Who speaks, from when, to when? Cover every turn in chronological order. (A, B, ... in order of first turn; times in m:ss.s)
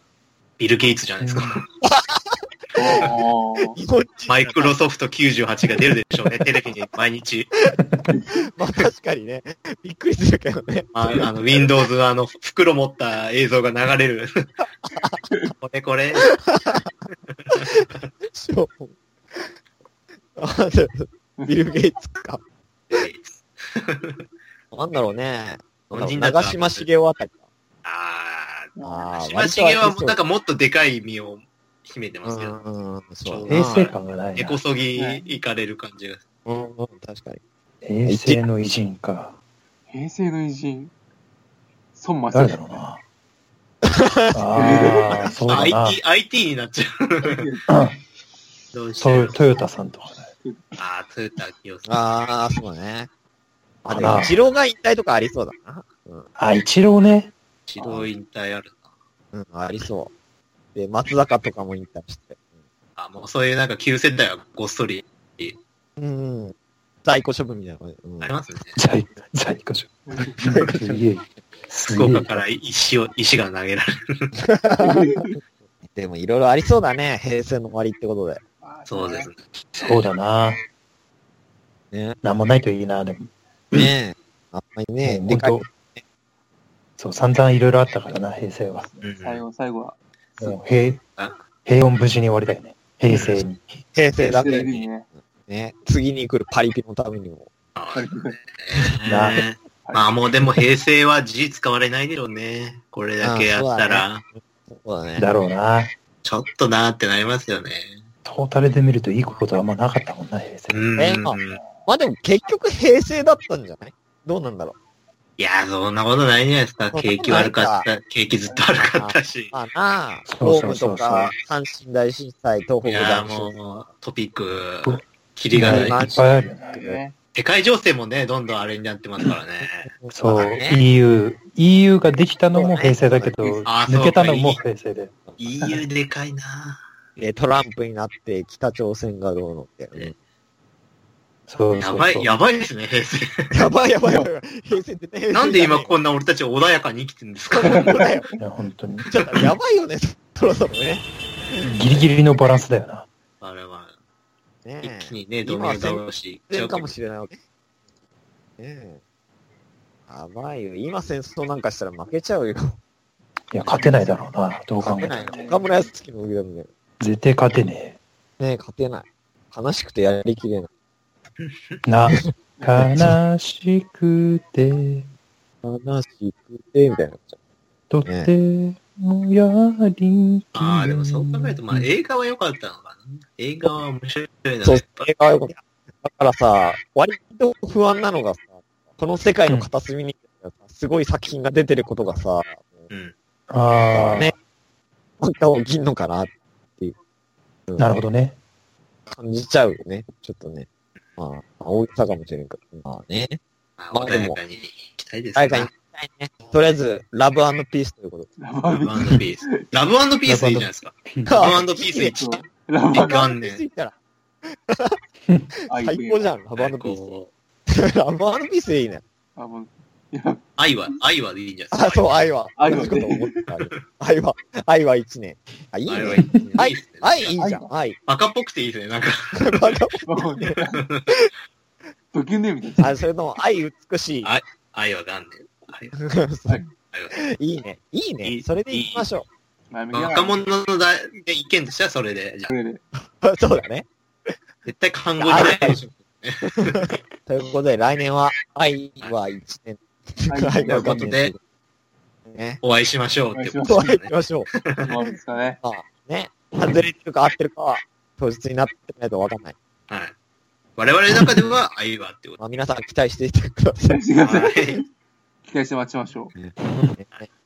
0:00.6-0:01.7 A
0:01.2-0:01.6 B
0:01.8-0:03.1 C
0:02.8-0:03.8 D
0:03.7-0:04.8 C
0:04.3-0:07.5 A
0:08.1-0:08.4 D
0:08.5-0:11.7 C
0:10.9-0:14.3 A
0:14.8-0:15.3 C
0:15.6-0:16.4 A
0:16.4-0:16.9 C
0:17.3-0:18.1 A
0:17.5-0:19.5 C
0:20.4-0:22.4 C
0:21.4-0:21.7 D
0:22.9-0:24.2 A
0:24.7-0:27.4 C
0:25.9-0:26.9 A
0:27.8-0:32.6 A
0:28.8-0:29.2 D
0:28.8-0:30.2 C
0:32.2-0:33.9 C
0:33.2-0:36.2 A
0:33.5-0:34.6 B
0:35.0-0:35.4 D
0:36.4-0:37.4 C
0:37.8-0:39.3 B
0:38.0-0:38.4 C
0:39.9-0:40.9 D
0:42.0-0:42.7 D
0:42.3-0:43.0 B
0:43.8-0:45.4 C
0:44.3-0:46.0 B
0:44.6-0:45.4 D
0:45.5-0:47.5 A
0:47.2-0:47.7 D
0:47.7-0:48.0 B
0:48.7-0:49.5 A
0:49.0-0:50.3 B
0:50.4-0:50.8 D
0:50.8-0:52.0 A
0:51.9-0:53.1 C
0:53.8-0:56.3 C
0:53.9-0:54.4 B
0:56.4-0:57.3 B
0:57.7-0:58.8 A
0:57.8-0:58.1 C
0:59.3-1:00.1 C
1:00.8-1:02.4 C
1:03.0-1:05.6 A
1:06.0-1:06.5 C
1:07.0-1:08.4 C
1:08.2-1:08.8 A
1:08.8-1:12.4 B
1:10.1-1:10.4 D
1:10.4-1:11.1 C
1:11.9-1:14.3 A
1:14.4-1:18.4 C
1:14.8-1:15.4 D
1:18.6-1:19.3 D
1:18.9-1:20.0 A
1:19.8-1:20.6 B
1:21.9-1:22.2 C
1:22.2-1:23.9 B
1:23.7-1:26.0 C
1:25.0-1:25.6 B
1:27.0-1:28.9 B
1:28.7-1:30.6 D
1:29.0-1:29.4 A
1:30.4-1:31.0 B
1:31.6-1:33.8 B
1:33.1-1:33.4 A
1:33.9-1:37.5 C
1:34.2-1:35.1 D
1:37.8-1:44.2 A
1:37.9-1:38.4 D
1:39.1-1:39.4 B
1:39.8-1:40.1 D
1:43.2-1:45.3 C
1:45.2-1:45.9 B
1:46.2-1:48.0 A
1:48.3-1:50.8 B
1:50.7-1:51.6 A
1:51.0-1:54.8 C
1:51.5-1:51.9 D
1:55.4-1:59.5 A
1:56.9-1:57.9 C
1:58.8-2:03.6 C
2:00.3-2:01.3 B
2:02.8-2:06.1 A
2:05.5-2:06.7 B
2:05.6-2:07.0 C
2:06.6-2:07.2 D
2:07.4-2:09.9 A
2:09.6-2:10.8 C
2:10.1-2:15.1 B
2:12.5-2:13.6 C
2:13.7-2:14.6 A
2:15.4-2:16.8 A
2:17.2-2:20.1 C
2:21.5-2:22.4 B
2:21.8-2:23.7 A
2:23.5-2:26.0 C
2:24.0-2:24.3 D
2:25.3-2:28.0 A
2:27.5-2:28.3 C
2:27.6-2:28.4 D
2:28.4-2:29.1 B
2:29.0-2:32.1 C
2:31.6-2:33.1 B
2:33.4-2:33.9 A
2:34.6-2:37.4 C
2:34.8-2:36.9 A
2:38.6-2:39.0 C
2:40.1-2:42.8 C
2:43.5-2:45.5 B
2:43.7-2:44.1 D
2:44.8-2:46.7 C
2:45.3-2:45.7 D
2:47.0-2:48.0 B
2:48.4-2:50.7 C
2:51.4-2:51.8 A
2:51.9-2:55.1 B
2:52.8-2:53.2 C
2:55.6-2:57.4 C
2:57.9-3:01.9 B
2:58.0-2:58.3 C
3:00.5-3:05.1 A
3:04.6-3:12.9 C
3:13.5-3:14.3 B
3:13.9-3:14.4 C
3:15.2-3:17.0 C
3:17.7-3:17.9 C
3:17.8-3:18.4 B
3:19.1-3:20.7 C
3:21.2-3:23.4 C
3:23.8-3:25.7 A
3:23.9-3:24.4 C
3:25.4-3:28.3 C
3:28.4-3:29.6 D
3:28.7-3:32.4 A
3:30.3-3:31.5 B
3:31.3-3:32.2 C
3:32.0-3:33.2 D
3:32.9-3:35.0 C
3:33.0-3:33.6 A
3:35.7-3:36.3 D
3:35.7-3:37.2 C
3:36.6-3:37.3 A
3:37.7-3:39.0 C
3:39.4-3:40.9 D
3:40.6-3:42.1 A
3:41.7-3:48.0 C
3:42.6-3:43.4 D
3:45.9-3:47.4 A
3:46.2-3:46.4 B
3:47.4-3:47.7 D
3:48.1-3:49.8 A
3:49.4-3:51.3 C
3:50.1-3:50.9 D
3:50.9-3:51.2 A
3:52.1-3:53.0 D
3:52.8-3:54.3 C
3:54.2-3:56.0 A
3:56.0-3:59.3 C
3:56.9-3:57.2 A
3:58.2-3:59.1 A
3:59.7-4:00.4 D
3:59.9-4:02.5 A
4:02.5-4:02.8 D
4:03.0-4:04.4 C
4:04.7-4:07.0 A
4:05.2-4:05.8 C
4:06.6-4:11.4 C
4:10.3-4:11.0 D
4:10.6-4:11.3 A
4:12.3-4:12.6 C
4:12.6-4:14.9 A
4:13.3-4:13.9 D
4:13.7-4:14.9 C
4:14.8-4:15.6 D
4:15.6-4:19.6 C
4:20.8-4:22.4 A
4:22.4-4:24.0 C
4:23.9-4:24.8 D
4:24.2-4:24.8 A
4:25.5-4:26.4 D
4:26.4-4:27.3 C